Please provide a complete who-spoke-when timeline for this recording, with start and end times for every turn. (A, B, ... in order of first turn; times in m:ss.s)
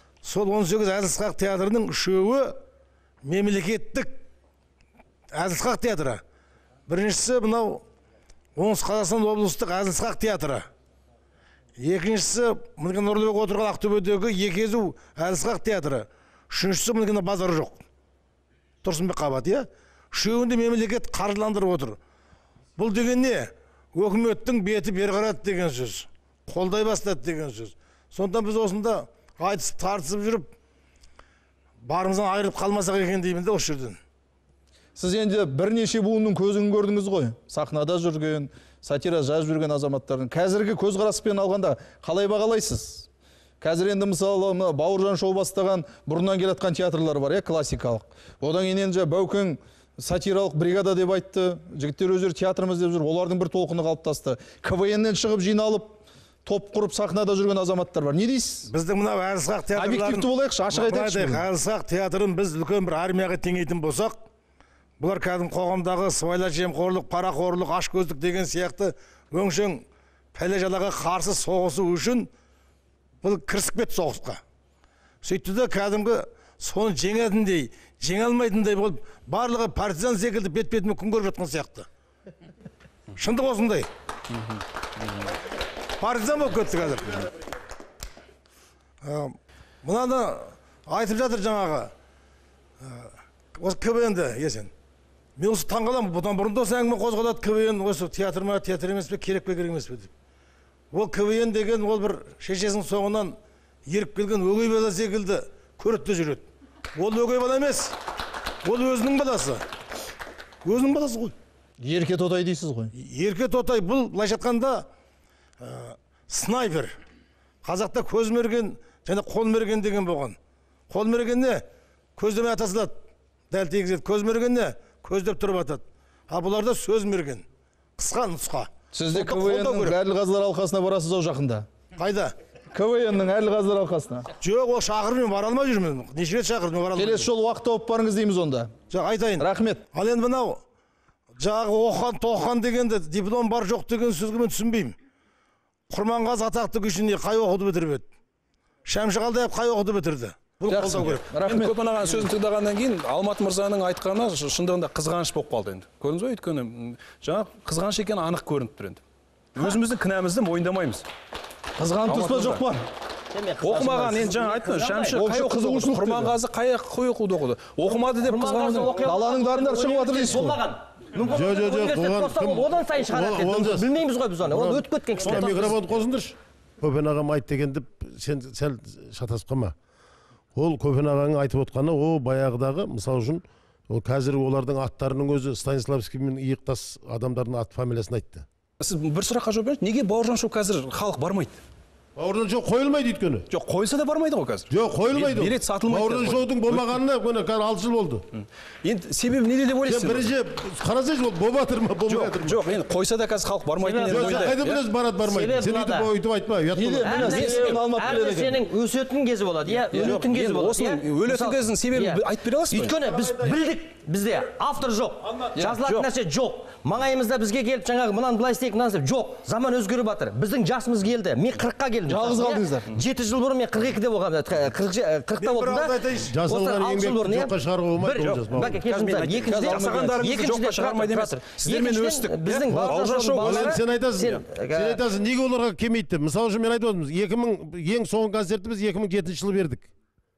0:00.2-0:02.6 A
0:03.2-0:04.2 A
0:05.3-0:06.2 A
0:06.9-0:07.8 A
0:08.6-0:10.7 A
0:11.8-0:17.8 A
0:18.8-0:22.0 A
0:22.8-0:30.5 A
0:31.8-0:34.0 A
0:35.0-0:43.1 B
0:43.6-0:58.7 B
0:58.7-1:04.2 A
0:59.8-1:01.4 B
1:05.0-1:09.8 A
1:10.4-1:12.3 A
1:13.2-1:14.4 A
1:15.2-1:21.9 A
1:23.2-1:23.9 A
1:26.0-1:27.3 A
1:29.0-1:31.9 A
1:32.8-1:34.7 A
1:35.4-1:40.1 A
1:40.9-1:48.0 A
1:48.6-1:49.6 A
1:50.6-1:51.4 A
1:51.8-1:52.9 B
1:53.0-1:54.9 A
1:55.6-1:56.9 A
1:57.6-2:00.4 A
2:00.9-2:01.6 A
2:02.2-2:02.9 A
2:03.5-2:07.4 A
2:08.0-2:10.0 A
2:08.9-2:11.7 B
2:12.0-2:12.4 A
2:12.7-2:14.3 B
2:14.4-2:17.3 A
2:17.0-2:18.7 B
2:18.9-2:20.6 A
2:19.4-2:19.8 B
2:21.4-2:25.0 A
2:25.9-2:28.1 A
2:28.9-2:31.3 A
2:30.7-2:32.3 B
2:31.4-2:39.0 C
2:39.6-2:41.1 C
2:41.8-2:42.8 B
2:42.0-2:42.6 C
2:43.3-2:45.2 D
2:43.6-2:49.0 C
2:45.1-2:46.3 B
2:47.9-2:55.8 D
2:49.0-2:50.6 B
2:51.3-2:53.9 E
2:54.5-2:59.8 E
3:00.6-3:08.5 E
3:08.8-3:11.6 C
3:12.2-3:13.5 E
3:13.5-3:17.0 C
3:14.7-3:18.2 E
3:18.4-3:20.3 C
3:19.8-3:22.6 E
3:22.1-3:24.8 C
3:23.8-3:24.6 D
3:24.1-3:27.5 E
3:25.2-3:26.1 D
3:26.7-3:28.6 B
3:27.0-3:55.0 D
3:27.2-3:27.8 C
3:29.9-3:33.0 C
3:29.9-3:30.2 B
3:35.6-3:36.1 C
3:42.1-3:42.9 B
3:45.4-3:46.3 A
3:46.2-3:48.8 E
3:48.2-3:54.4 C
3:49.4-3:50.4 B
3:52.7-3:59.9 E